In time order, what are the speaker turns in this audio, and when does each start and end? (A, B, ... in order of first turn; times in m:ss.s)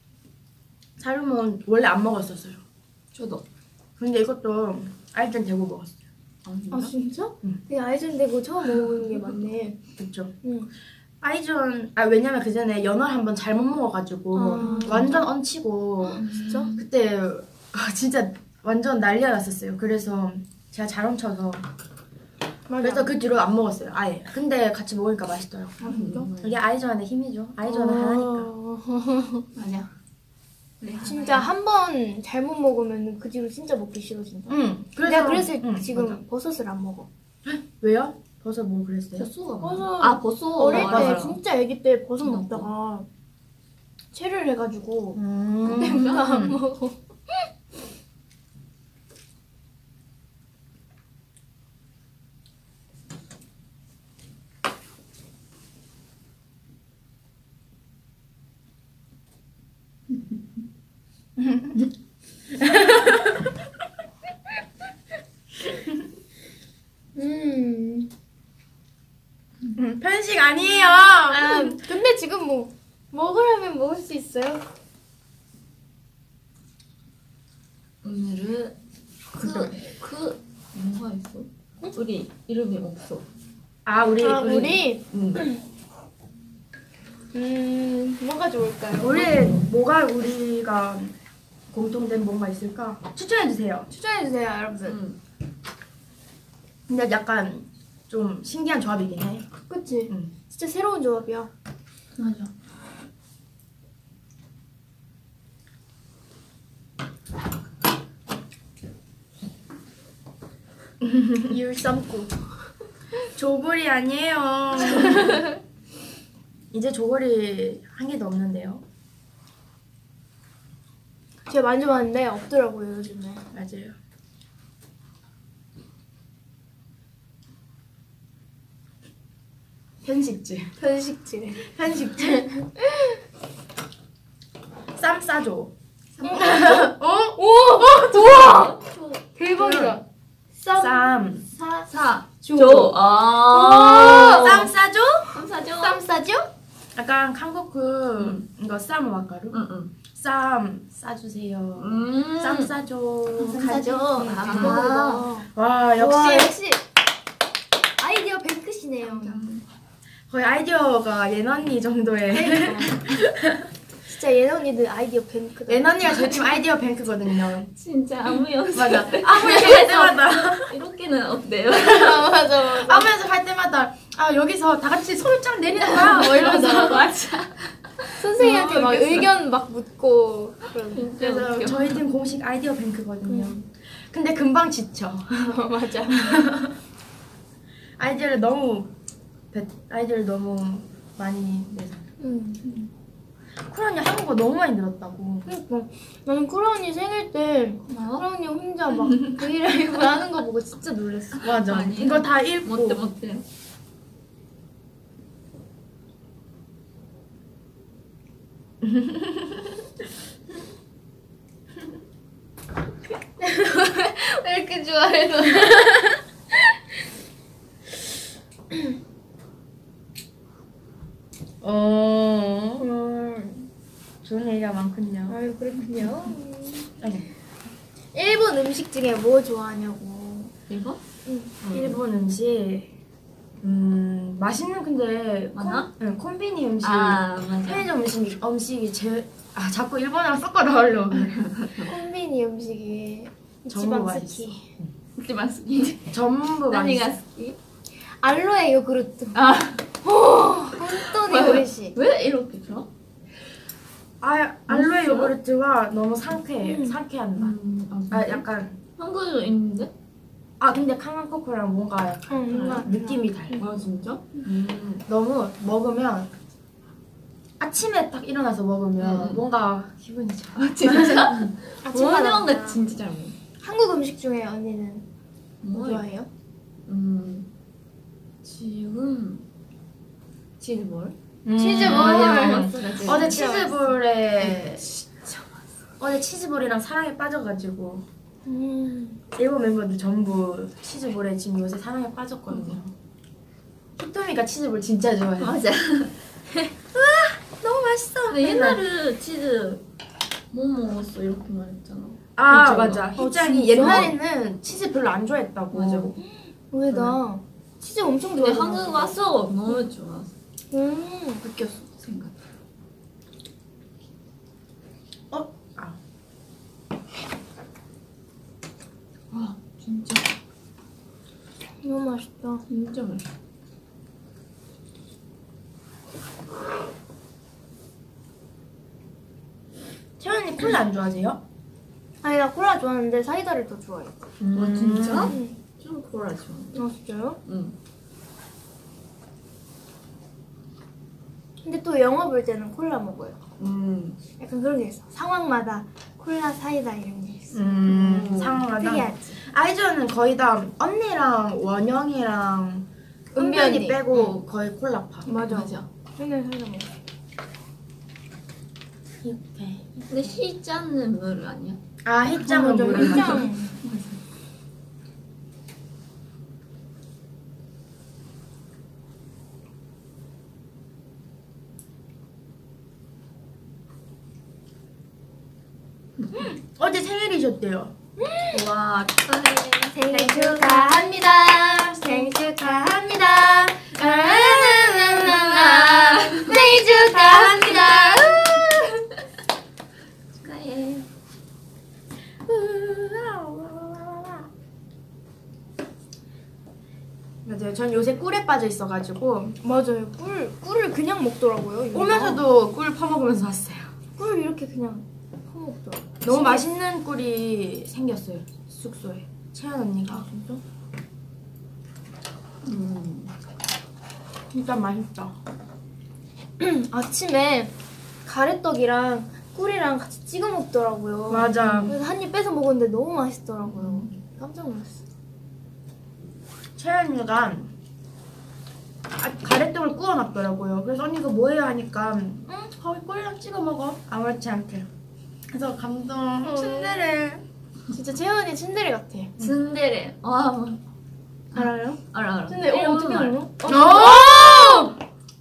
0:01.0-0:02.6 A
0:03.1-0:03.4 B
0:04.0-0:05.9 A
0:06.4-0:07.0 B
0:06.7-0:09.8 C
0:10.0-0:10.3 A
0:10.4-0:10.7 C
0:11.2-0:21.7 A
0:14.3-0:15.1 C
0:14.6-0:15.1 B
0:16.1-0:16.8 B
0:16.1-0:16.7 C
0:22.7-0:23.1 C
0:22.8-0:28.5 A
0:25.8-0:26.3 C
0:25.8-0:26.6 B
0:27.6-0:29.5 C
0:29.5-0:29.9 B
0:30.8-0:31.5 B
0:31.0-0:37.1 C
0:34.5-0:36.2 A
0:37.4-0:39.3 A
0:39.2-0:41.4 B
0:39.6-0:43.1 C
0:40.7-0:41.2 A
0:42.2-0:42.7 B
0:44.1-0:47.5 C
0:45.2-0:46.6 A
0:45.7-0:46.3 B
1:01.4-1:01.9 A
1:02.6-1:03.4 A
1:07.1-1:08.1 C
1:09.7-1:11.8 A
1:11.2-1:14.6 C
1:18.0-1:18.7 B
1:19.3-1:23.2 B
1:19.4-1:19.7 A
1:23.8-1:24.8 A
1:24.2-1:25.6 C
1:25.1-1:25.4 B
1:27.3-1:29.5 C
1:29.0-1:31.1 A
1:31.7-1:33.9 A
1:33.9-1:35.0 C
1:34.8-1:35.2 B
1:36.9-1:39.5 A
1:39.7-1:41.5 C
1:42.2-1:42.5 B
1:51.0-1:51.5 A
1:51.5-1:52.3 C
1:53.3-1:55.4 A
1:55.0-1:55.4 C
1:56.7-1:58.8 A
2:01.5-2:03.4 C
2:03.5-2:04.0 A
2:10.0-2:10.7 A
2:10.8-2:11.7 C
2:11.7-2:12.5 A
2:12.8-2:13.1 C
2:14.9-2:15.7 A
2:16.2-2:16.9 B
2:16.2-2:18.8 C
2:16.3-2:18.3 A
2:18.2-2:19.2 B
2:19.3-2:20.0 C
2:19.6-2:20.0 A
2:20.6-2:24.6 C
2:20.8-2:21.4 A
2:21.9-2:24.7 B
2:24.3-2:25.3 A
2:25.3-2:26.0 B
2:25.8-2:26.5 C
2:26.9-2:29.6 A
2:29.5-2:29.9 B
2:30.1-2:36.5 A
2:31.8-2:32.7 B
2:33.4-2:36.8 C
2:33.5-2:35.3 B
2:38.0-2:39.4 C
2:39.0-2:39.6 B
2:40.3-2:43.6 A
2:42.3-2:43.0 C
2:44.0-2:46.3 C
2:45.7-2:47.7 A
2:47.7-2:52.3 B
2:48.7-2:50.7 A
2:49.4-2:49.9 C
2:51.7-2:53.1 C
2:52.6-2:57.0 A
2:55.8-2:57.0 C
2:55.9-2:59.3 B
2:58.2-3:01.1 C
3:00.9-3:02.0 B
3:01.2-3:05.5 A
3:03.3-3:03.5 C
3:05.4-3:06.4 C
3:06.1-3:06.7 A
3:08.0-3:08.9 A
3:09.5-3:12.0 A
3:12.2-3:12.7 C
3:13.6-3:15.5 A
3:15.4-3:21.5 C
3:17.9-3:18.2 B
3:21.4-3:23.0 A
3:21.4-3:23.4 B
3:28.8-3:29.7 A
3:33.4-3:36.2 C
3:41.6-3:42.9 A
3:42.8-3:43.7 C
3:44.2-3:45.3 A
3:45.3-3:46.9 C
3:47.0-3:47.3 A
3:48.1-3:50.5 C
3:50.7-3:51.0 B
3:51.2-3:51.5 C
3:51.6-3:52.0 B
3:51.6-3:52.9 A
3:53.6-4:01.4 A
3:55.5-3:55.9 B
3:56.8-3:57.9 B
4:01.2-4:01.9 B
4:01.8-4:04.6 C
4:03.7-4:04.8 A
4:05.2-4:07.6 B
4:06.1-4:07.1 A
4:08.1-4:09.4 C
4:09.3-4:09.8 B
4:10.0-4:11.9 C
4:11.1-4:12.9 B
4:14.2-4:17.6 A
4:14.7-4:15.3 B
4:16.6-4:17.0 C
4:17.4-4:18.4 B
4:18.1-4:18.8 A
4:19.0-4:19.9 B
4:20.6-4:23.7 A
4:22.3-4:23.6 C
4:22.5-4:22.9 B
4:23.6-4:25.0 B
4:25.1-4:26.3 A
4:27.6-4:31.5 A
4:29.0-4:29.4 B
4:30.6-4:33.4 B
4:31.8-4:32.8 C
4:33.6-4:35.0 C
4:35.6-4:36.0 B
4:35.7-4:36.3 C
4:36.8-4:37.5 B
4:38.4-4:39.4 B
4:40.6-4:41.1 B
4:41.4-4:44.9 A
4:41.5-4:44.0 C
4:41.7-4:43.4 B
4:44.4-4:45.4 B
4:46.0-4:48.0 A
4:48.4-4:49.2 C
4:49.3-4:52.9 A
4:52.5-4:52.8 B
4:54.0-4:55.6 A
4:55.4-4:56.1 B
4:56.9-4:58.8 A
4:58.3-4:59.8 B
5:00.5-5:03.2 B
5:02.4-5:06.2 A
5:03.2-5:04.1 C
5:03.8-5:04.1 B
5:05.7-5:06.1 B
5:06.2-5:09.2 C
5:08.4-5:10.3 B
5:10.7-5:11.5 C
5:11.4-5:12.3 B
5:15.3-5:16.0 A
5:19.3-5:20.4 B
5:21.8-5:22.6 C
5:22.7-5:23.2 B
5:30.2-5:31.4 A
5:32.2-5:34.2 C
5:34.4-5:35.3 A
5:34.5-5:36.8 B
5:35.2-5:35.6 C
5:36.7-5:37.4 C
5:37.4-5:37.7 B
5:41.6-5:43.4 C
5:43.6-5:44.2 B
5:44.4-5:49.4 C
5:47.5-5:55.3 A
5:47.9-5:48.6 B
5:53.3-5:54.3 C
5:55.2-5:56.9 C
5:55.4-5:55.9 B
5:59.2-6:00.3 A
6:00.1-6:01.8 B
6:02.0-6:03.5 A
6:02.4-6:03.8 C
6:02.9-6:04.2 B
6:16.2-6:16.5 B
6:16.3-6:17.9 A
6:18.2-6:18.6 C
6:18.5-6:19.2 A
6:19.0-6:19.9 B
6:19.9-6:28.9 C
6:20.1-6:23.0 A
6:23.8-6:28.7 A
6:25.8-6:26.5 B
6:30.4-6:31.0 B
6:32.4-6:34.5 A
6:37.4-6:39.6 A
6:39.6-6:42.4 C
6:41.9-6:43.9 A
6:44.2-6:46.6 C
6:46.2-6:50.2 A
6:50.1-6:50.6 C
6:52.6-6:53.3 B
6:54.5-6:55.4 A
6:56.6-6:57.7 C
6:58.2-7:05.0 C
7:01.3-7:01.9 A
7:01.6-7:01.9 B
7:03.7-7:04.1 B
7:06.8-7:07.7 A
7:09.2-7:14.9 A
7:15.5-7:17.4 A
7:16.4-7:17.2 C
7:17.9-7:19.3 C
7:19.4-7:20.8 B
7:21.5-7:23.4 B
7:21.5-7:24.9 C
7:23.6-7:24.9 A